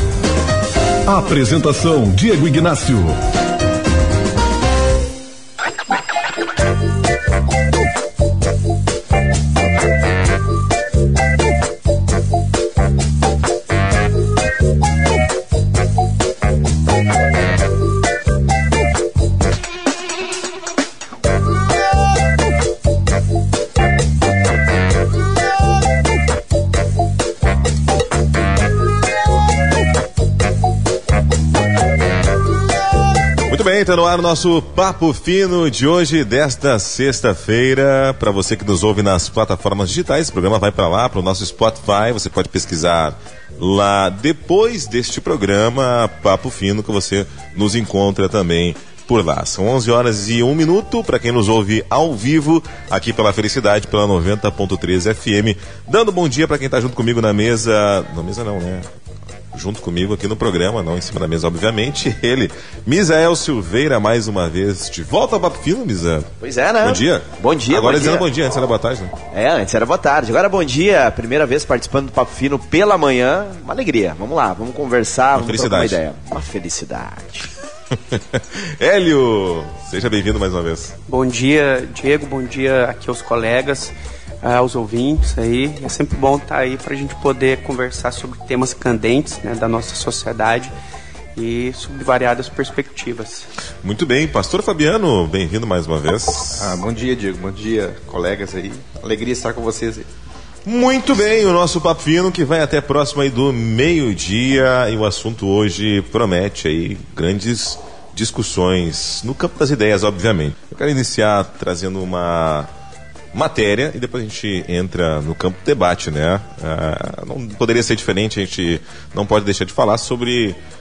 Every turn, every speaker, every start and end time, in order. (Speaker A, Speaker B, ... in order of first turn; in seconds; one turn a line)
Speaker A: 1.1-3.2
Speaker B: 33.5-58.8
Speaker B: 59.5-69.1
Speaker C: 66.4-68.3
Speaker C: 69.3-77.5
Speaker B: 75.3-76.0
Speaker B: 78.1-80.9
Speaker D: 81.1-90.7
Speaker D: 91.3-93.5
Speaker B: 93.8-96.7
Speaker E: 96.6-100.1
Speaker B: 100.6-112.7
Speaker B: 113.3-120.6